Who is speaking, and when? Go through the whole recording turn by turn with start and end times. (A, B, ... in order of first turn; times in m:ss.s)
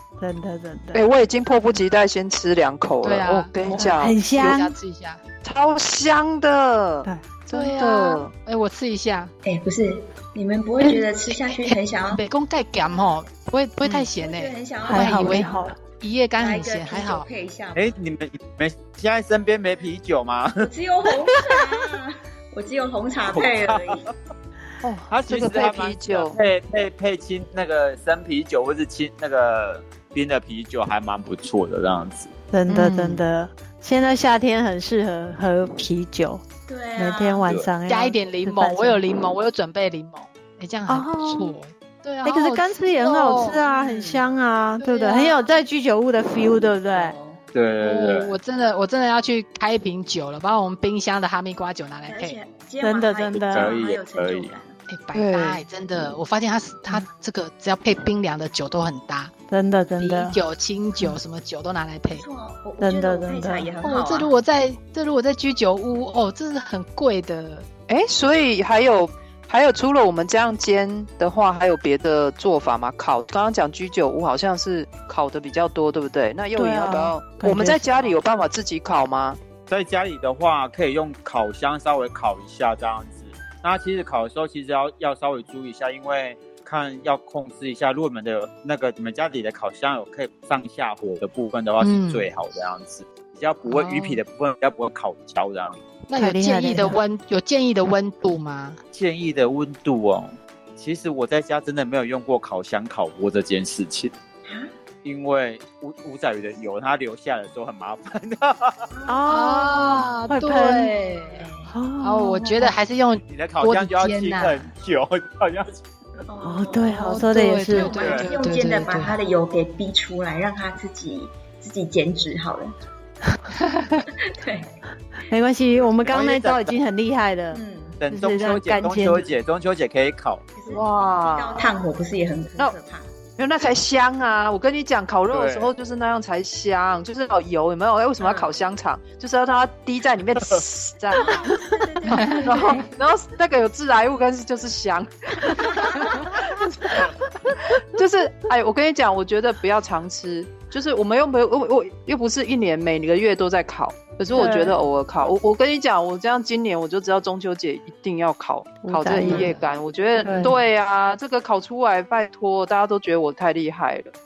0:00.2-0:01.0 A
0:00.9-0:04.2 B
0:03.0-0:05.2 C
0:03.7-0:04.7 A
0:05.4-0:08.3 B
0:07.5-0:09.3 C
0:09.4-0:12.2 D
0:11.5-0:15.5 C
0:14.2-0:15.5 D
0:14.8-0:15.8 A
0:16.0-0:17.3 C
0:16.4-0:17.9 D
0:17.7-0:20.7 E
0:20.6-0:24.1 D
0:23.2-0:24.1 E
0:24.8-0:26.4 B
0:25.1-0:32.3 E
0:32.5-0:36.4 A
0:32.7-0:33.2 B
0:36.7-0:37.5 D
0:37.0-0:39.0 A
0:37.9-0:43.6 C
0:40.9-0:41.6 A
0:42.2-0:47.1 A
0:43.6-0:44.2 D
0:44.8-0:45.4 C
0:46.9-0:47.4 D
0:47.5-0:48.4 E
0:47.8-0:52.4 C
0:52.1-0:54.8 D
0:52.8-0:53.8 A
0:53.4-0:54.5 E
0:54.9-0:59.3 C
0:55.1-0:55.6 B
0:59.5-1:00.4 A
1:00.0-1:02.2 C
1:02.1-1:04.3 D
1:02.8-1:03.7 A
1:03.8-1:07.6 C
1:07.9-1:19.4 B
1:16.6-1:18.2 A
1:19.7-1:35.8 E
1:31.8-1:32.3 C
1:33.7-1:34.2 C
1:36.1-1:38.8 C
1:36.1-1:37.0 A
1:38.9-1:44.1 E
1:44.5-1:44.7 D
1:45.0-1:48.9 E
1:48.9-1:49.2 D
1:49.1-1:50.9 A
1:49.3-1:51.5 C
1:51.2-1:51.7 D
1:51.6-1:52.7 A
1:52.0-1:54.7 C
1:53.3-1:55.8 E
1:56.2-2:02.8 D
1:56.4-1:58.0 A
1:56.9-1:59.2 C
1:57.9-1:58.3 E
2:03.9-2:04.8 D
2:05.3-2:09.3 A
2:06.1-2:06.7 E
2:07.5-2:08.0 D
2:08.0-2:10.4 E
2:10.6-2:13.1 D
2:10.7-2:11.8 B
2:13.4-2:21.6 B
2:15.3-2:15.7 E
2:18.2-2:18.5 D
2:21.1-2:22.9 D
2:22.1-2:22.7 C
2:22.4-2:27.1 B
2:25.4-2:25.9 D
2:27.8-2:44.1 B
2:34.3-2:34.8 A
2:38.8-2:39.5 A
2:39.2-2:39.7 C
2:40.2-2:40.6 A